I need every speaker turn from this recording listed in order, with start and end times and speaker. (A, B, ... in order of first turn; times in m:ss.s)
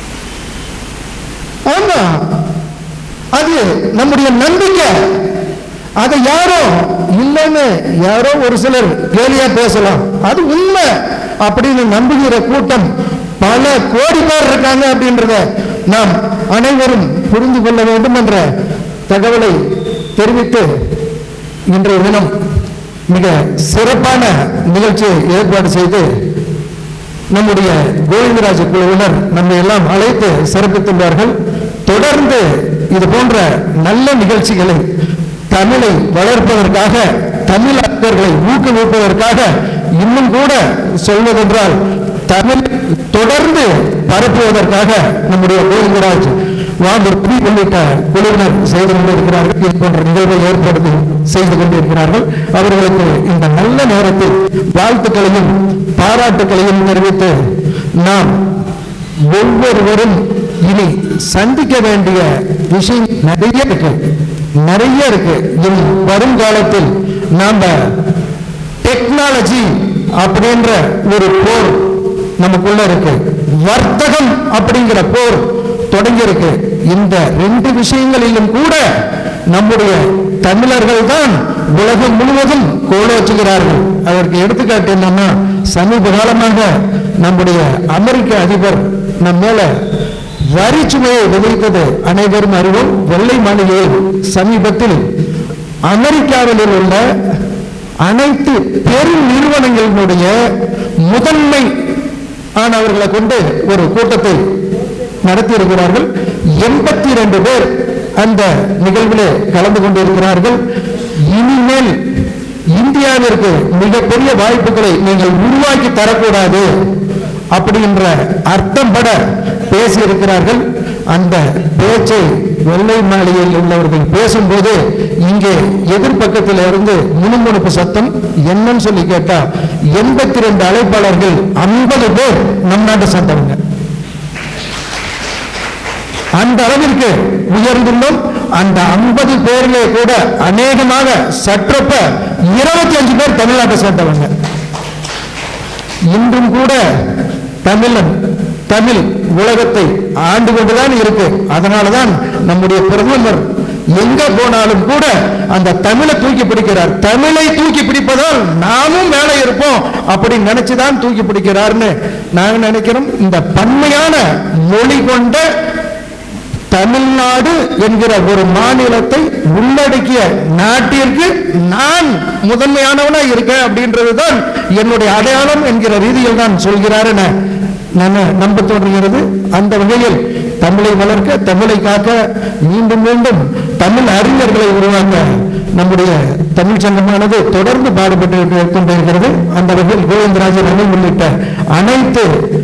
0:01.7-0:02.2 A
0:03.4-0:05.0 A
0:06.0-0:10.9 A
0:11.4-0:12.9 A
0:13.4-0:18.5 A
0:19.1-0:19.6 A
0:20.2-0:20.7 A
0:21.7-0:22.3 A
0:23.1-0:26.1 A
0:27.3-0:31.3 A
0:31.9-0:34.8 A
0:35.5-0:57.4 A
0:58.0-0:58.4 A
0:59.3-1:04.0 A
1:04.6-1:07.9 A
1:08.8-1:11.8 A
1:12.4-1:18.9 A
1:19.5-1:29.7 A
1:30.5-1:35.0 A
1:35.9-1:37.0 A
1:38.0-1:40.5 A
1:41.0-1:41.7 A
1:42.6-1:44.4 A
1:45.2-1:50.6 A
1:51.3-1:51.9 A
1:52.7-1:56.7 A
1:57.6-2:09.4 A
2:09.9-2:13.6 A
2:16.4-2:24.3 A
2:26.1-2:26.8 A
2:27.6-2:28.1 A
2:28.7-2:45.5 A
2:46.7-2:57.3 A
2:58.0-3:12.3 A